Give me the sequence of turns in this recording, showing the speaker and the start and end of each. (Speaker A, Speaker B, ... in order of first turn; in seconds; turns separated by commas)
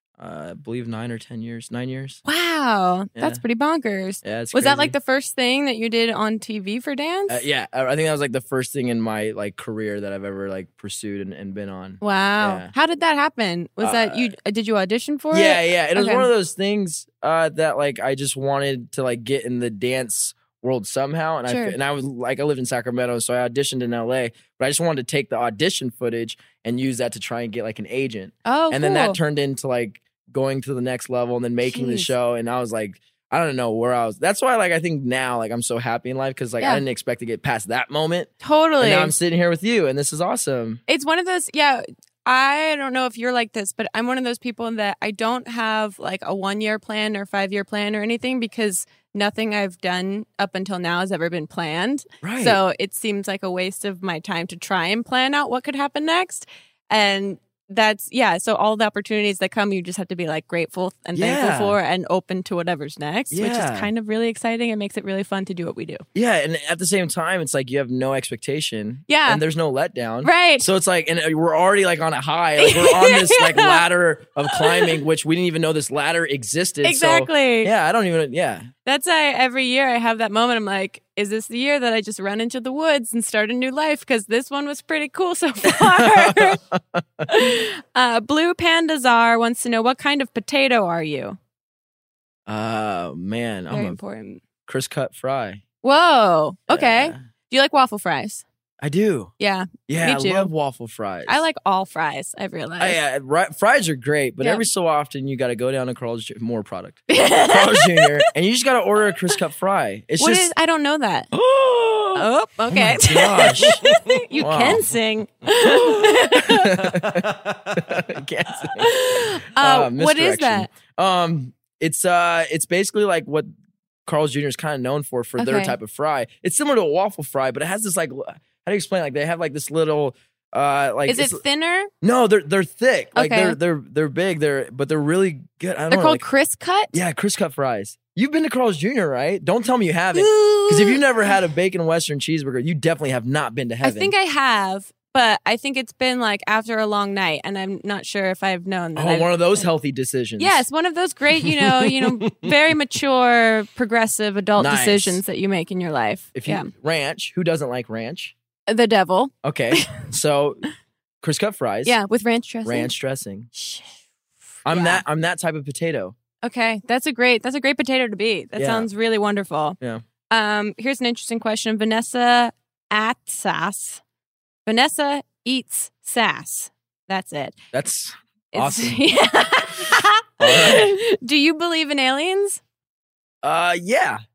Speaker A: 0.2-2.2, Speaker B: 2.2-7.4, Speaker A: 3.1-3.4, Speaker A: 4.2-4.9, Speaker A: 7.3-12.7, Speaker B: 12.0-16.3, Speaker A: 13.8-14.3, Speaker A: 15.3-40.8, Speaker B: 21.4-21.8, Speaker B: 28.4-29.2, Speaker B: 31.7-32.1, Speaker B: 38.4-39.1, Speaker B: 40.9-66.0, Speaker A: 52.2-52.6, Speaker A: 61.1-61.8, Speaker A: 63.3-63.9, Speaker A: 66.1-78.7, Speaker B: 69.1-69.4, Speaker B: 70.2-70.7, Speaker B: 72.6-73.8, Speaker B: 74.5-75.0, Speaker B: 76.8-77.7, Speaker B: 78.8-86.6, Speaker A: 85.7-87.3, Speaker B: 87.2-91.4, Speaker A: 92.5-94.0, Speaker B: 93.7-94.4, Speaker A: 94.7-95.6, Speaker B: 95.8-98.4, Speaker A: 96.7-97.2, Speaker A: 98.8-99.3, Speaker B: 99.4-100.5, Speaker A: 99.9-101.4, Speaker B: 101.3-103.0, Speaker A: 102.8-110.5, Speaker B: 107.1-108.2, Speaker B: 110.2-111.3, Speaker A: 111.3-113.9, Speaker B: 112.1-116.8, Speaker A: 114.4-114.8, Speaker A: 115.6-123.5, Speaker B: 118.7-120.7, Speaker A: 124.0-131.4, Speaker B: 125.4-125.8, Speaker B: 131.1-131.9, Speaker A: 132.0-136.2, Speaker B: 133.1-133.6, Speaker B: 135.9-136.9, Speaker A: 136.9-144.1, Speaker B: 140.1-141.0, Speaker B: 143.8-149.7, Speaker A: 148.9-150.6, Speaker B: 150.4-156.7, Speaker A: 154.6-155.2, Speaker A: 156.3-158.3, Speaker B: 158.7-160.1, Speaker A: 159.4-160.6, Speaker A: 161.2-161.9, Speaker B: 161.8-162.9, Speaker A: 162.6-163.5, Speaker B: 163.5-163.9, Speaker A: 164.6-166.1, Speaker B: 164.7-165.0, Speaker B: 166.4-169.8, Speaker A: 168.6-168.9, Speaker B: 170.3-174.0, Speaker B: 174.7-177.6, Speaker A: 177.7-179.0, Speaker B: 178.5-182.6, Speaker A: 180.4-180.9, Speaker A: 183.4-184.2